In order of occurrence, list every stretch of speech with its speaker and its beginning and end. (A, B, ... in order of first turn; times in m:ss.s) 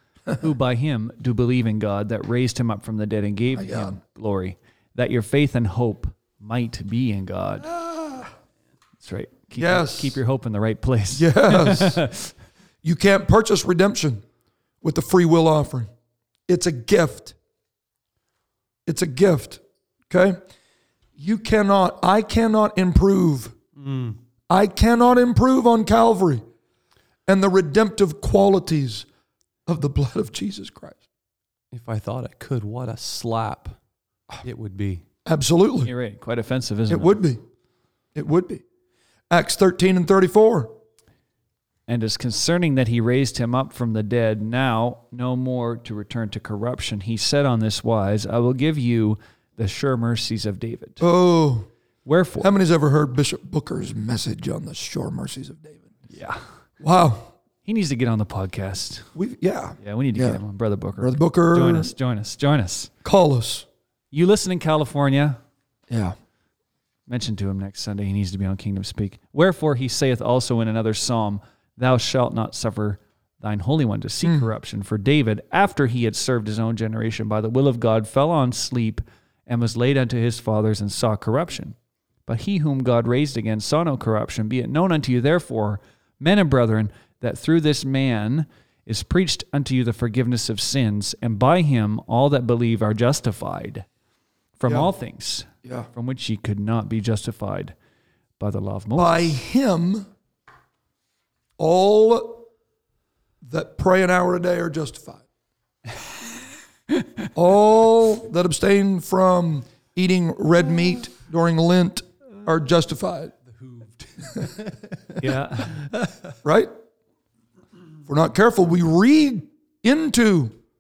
0:00.4-0:07.7 A
0:03.6-0:04.0 B
0:07.7-0:08.3 B
0:09.0-0:12.3 A
0:09.6-0:10.2 B
0:11.2-0:12.0 B
0:12.8-0:14.2 B
0:14.8-0:15.9 B
0:16.5-0:17.4 B
0:18.9-0:20.4 B
0:21.2-0:23.6 B
0:23.8-0:24.2 C
0:24.5-0:26.4 B
0:27.3-0:29.1 B
0:29.7-0:31.0 B
0:31.7-0:33.8 C
0:34.4-0:35.0 C
0:35.3-0:35.9 B
0:35.8-0:37.2 A
0:36.9-0:37.4 B
0:38.2-0:38.6 B
0:39.3-0:40.7 B
0:41.9-0:51.0 A
0:51.0-0:51.7 B
0:52.0-0:52.5 A
0:52.4-0:55.9 B
0:56.1-0:56.6 A
0:56.8-0:57.3 B
0:57.6-0:59.1 A
0:59.2-1:00.4 B
0:59.8-1:02.9 A
1:01.0-1:01.9 B
1:03.0-1:03.7 B
1:04.1-1:05.4 A
1:05.9-1:06.2 B
1:07.1-1:33.9 A
1:14.2-1:14.5 B
1:34.6-1:37.8 A
1:35.6-1:35.9 B
1:38.4-1:39.4 A
1:39.0-1:40.1 B
1:41.6-1:42.5 B
1:43.4-1:45.3 B
1:46.9-1:47.2 A
1:47.4-1:53.4 B
1:53.6-1:55.1 C
1:55.2-1:55.9 A
1:56.4-1:56.7 B
1:58.1-2:00.6 B